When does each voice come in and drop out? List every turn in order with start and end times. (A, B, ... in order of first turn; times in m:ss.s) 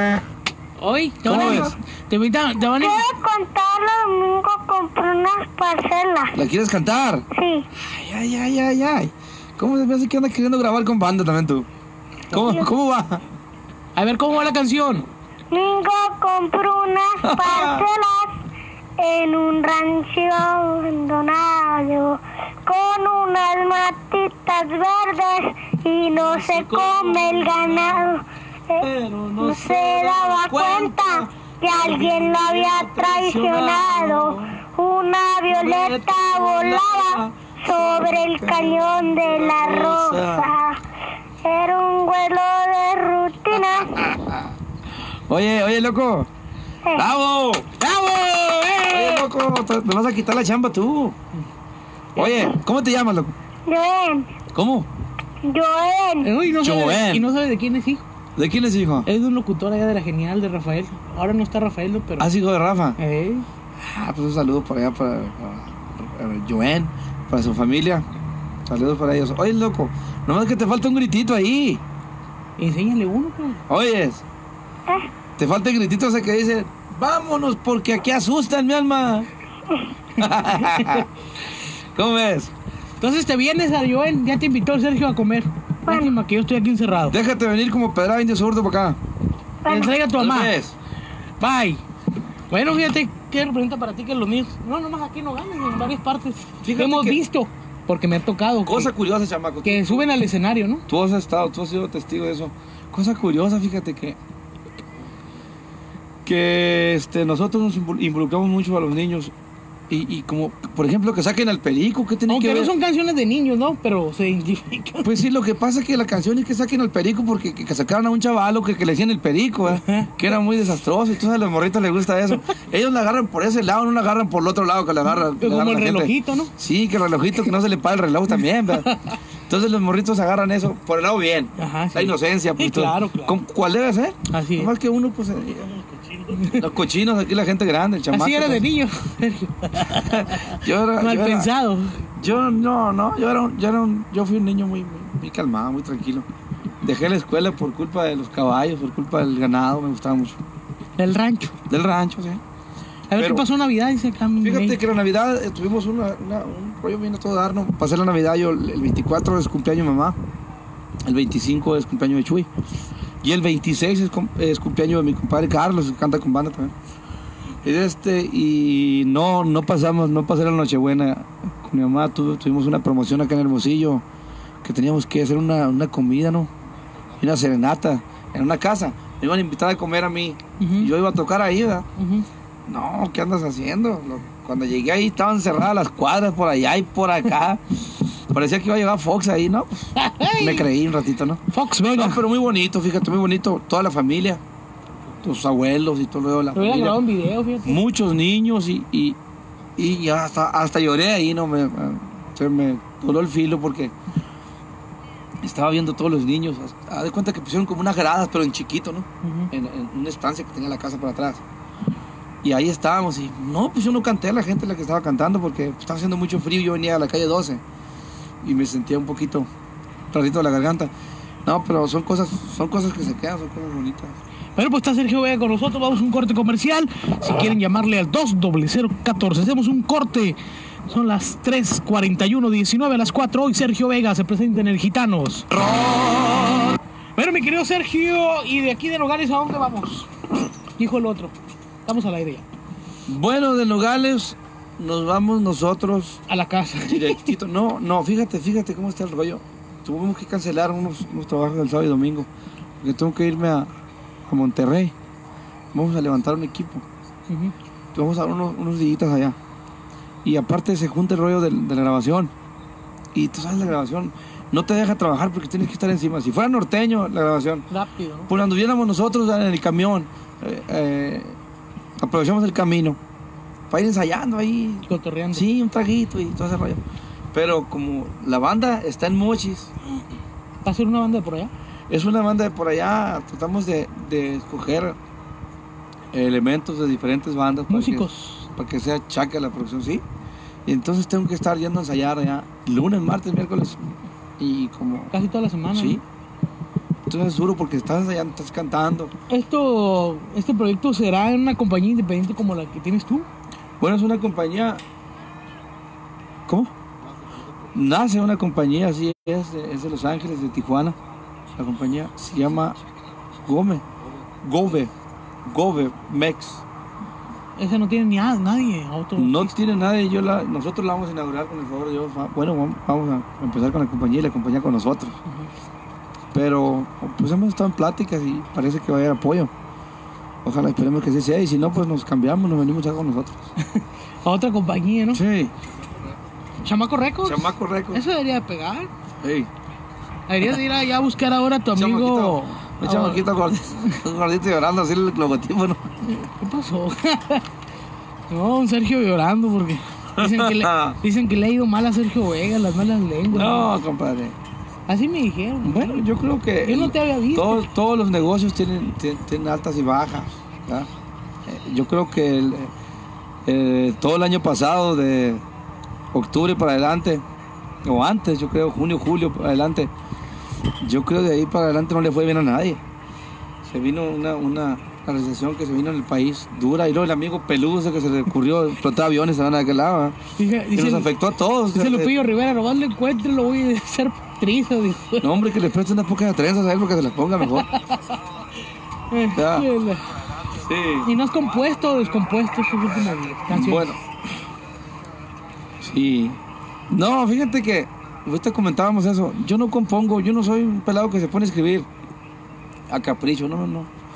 0:00.8-0:03.1 A
0:01.2-0:01.7 B
0:01.3-0:01.7 C
0:02.8-0:06.4 C
0:06.3-0:07.2 B
0:07.3-0:07.6 C
0:07.8-0:11.6 B
0:12.3-0:13.2 B
0:12.3-0:12.7 C
0:14.0-0:15.1 A
0:15.5-0:18.3 C
0:17.2-0:17.8 B
0:19.0-0:28.8 C
0:26.1-0:28.1 B
0:28.8-0:34.6 B
0:29.4-0:40.8 C
0:35.5-0:40.5 B
0:41.4-0:44.0 C
0:43.5-0:44.5 B
0:45.3-0:46.3 B
0:46.9-0:47.8 B
0:47.8-0:49.2 A
0:48.9-0:51.2 B
0:52.2-0:53.3 B
0:53.7-0:54.4 C
0:54.5-0:54.9 B
0:55.4-0:56.3 C
0:56.2-0:58.0 A
0:56.6-0:57.2 B
0:58.4-0:59.1 B
0:59.0-1:02.3 A
1:02.2-1:03.0 B
1:03.0-1:03.4 A
1:03.8-1:08.0 B
1:08.7-1:11.8 B
1:12.6-1:13.6 A
1:13.7-1:14.2 B
1:15.4-1:19.3 B
1:20.2-1:21.1 B
1:20.6-1:21.0 A
1:21.9-1:22.5 B
1:23.0-1:27.2 A
1:25.8-1:26.1 C
1:27.1-1:29.0 B
1:29.6-1:30.0 C
1:29.6-1:30.6 A
1:30.0-1:30.8 B
1:31.4-1:31.8 A
1:32.5-1:38.9 A
1:36.6-1:37.2 B
1:38.6-1:40.0 B
1:39.6-1:40.8 A
1:40.9-1:44.2 B
1:46.2-1:49.3 B
1:49.9-1:52.7 B
1:52.3-1:55.1 A
1:55.0-2:18.6 B
1:59.8-2:00.1 A
2:05.1-2:06.5 A
2:11.6-2:13.4 A
2:14.3-2:14.7 A
2:16.3-2:16.6 A
2:18.1-2:22.1 A
2:19.9-2:21.5 B
2:22.2-2:26.3 B
2:26.8-2:30.4 B
2:31.0-2:31.6 A
2:31.7-2:32.4 B
2:33.1-2:34.8 A
2:33.1-2:33.4 B
2:34.4-2:40.2 B
2:41.0-2:42.5 B
2:43.2-2:46.7 B
2:47.6-2:54.0 B
2:54.6-2:56.5 B
2:57.2-3:01.8 B
3:00.6-3:00.9 A
3:02.0-3:02.2 A
3:02.7-3:11.4 B
3:10.0-3:10.6 A
3:11.5-3:12.2 A
3:11.9-3:14.4 B
3:15.2-3:17.0 B
3:16.5-3:17.8 A
3:17.6-3:19.2 B
3:19.8-3:23.9 B
3:25.4-3:31.4 B
3:29.2-3:29.5 A
3:32.4-3:37.6 B
3:38.4-3:39.5 B
3:40.1-3:40.9 B
3:41.4-3:44.2 B
3:44.6-3:55.6 A
3:55.5-3:56.6 B
3:57.2-4:00.1 A
4:00.8-4:01.3 A
4:01.8-4:02.4 A
4:03.1-4:06.2 B
4:06.3-4:07.3 A
4:06.8-4:12.3 B
4:12.8-4:13.7 B
4:14.3-4:14.9 B
4:15.7-4:16.8 B
4:17.3-4:17.5 A
4:17.9-4:19.4 B
4:20.2-4:22.3 B
4:23.1-4:27.6 B
4:27.7-4:28.3 A
4:28.3-4:31.4 B
4:32.0-4:33.0 B
4:33.7-4:36.8 B
4:34.9-4:35.4 A
4:37.3-4:39.7 B
4:40.6-4:41.5 A
4:41.9-4:45.0 B
4:46.1-4:48.0 B
4:47.7-4:48.5 A
4:48.6-4:50.0 B
4:50.6-4:55.1 B
4:55.1-4:56.0 A
4:55.7-4:56.0 B
4:57.1-4:59.1 B
4:59.3-5:03.3 A
5:03.8-5:04.8 B
5:07.7-5:11.0 B
5:11.6-5:12.8 B
5:13.4-5:13.8 B
5:14.4-5:14.9 B
5:15.4-5:16.6 B
5:17.6-5:19.6 A
5:19.2-5:25.1 B
5:26.3-5:29.5 B
5:30.4-5:33.5 B
5:33.6-5:35.2 A
5:35.1-5:35.5 B
5:36.6-5:38.9 A
5:37.2-5:38.0 B
5:39.2-5:39.5 B
5:40.3-5:44.0 A
5:41.7-5:45.8 B
5:46.0-5:47.5 A
5:48.3-5:53.7 A
5:50.2-5:51.0 B
5:53.3-5:54.4 B
5:54.9-5:56.1 A
5:55.6-6:00.9 B
5:56.6-5:57.6 A
6:01.4-6:02.7 B
6:03.4-6:05.4 B
6:06.1-6:07.2 B
6:07.8-6:09.9 B
6:10.8-6:12.8 B
6:13.6-6:20.2 B
6:20.4-6:21.1 A
6:20.7-6:22.1 B
6:21.7-6:25.3 A
6:25.2-6:27.7 B
6:27.6-6:28.2 A
6:29.1-6:30.1 A
6:29.3-6:29.7 B
6:30.5-6:31.1 B
6:31.0-6:33.9 A
6:33.5-6:34.0 B
6:35.8-6:36.4 B
6:36.9-6:41.9 B
6:42.9-6:43.9 B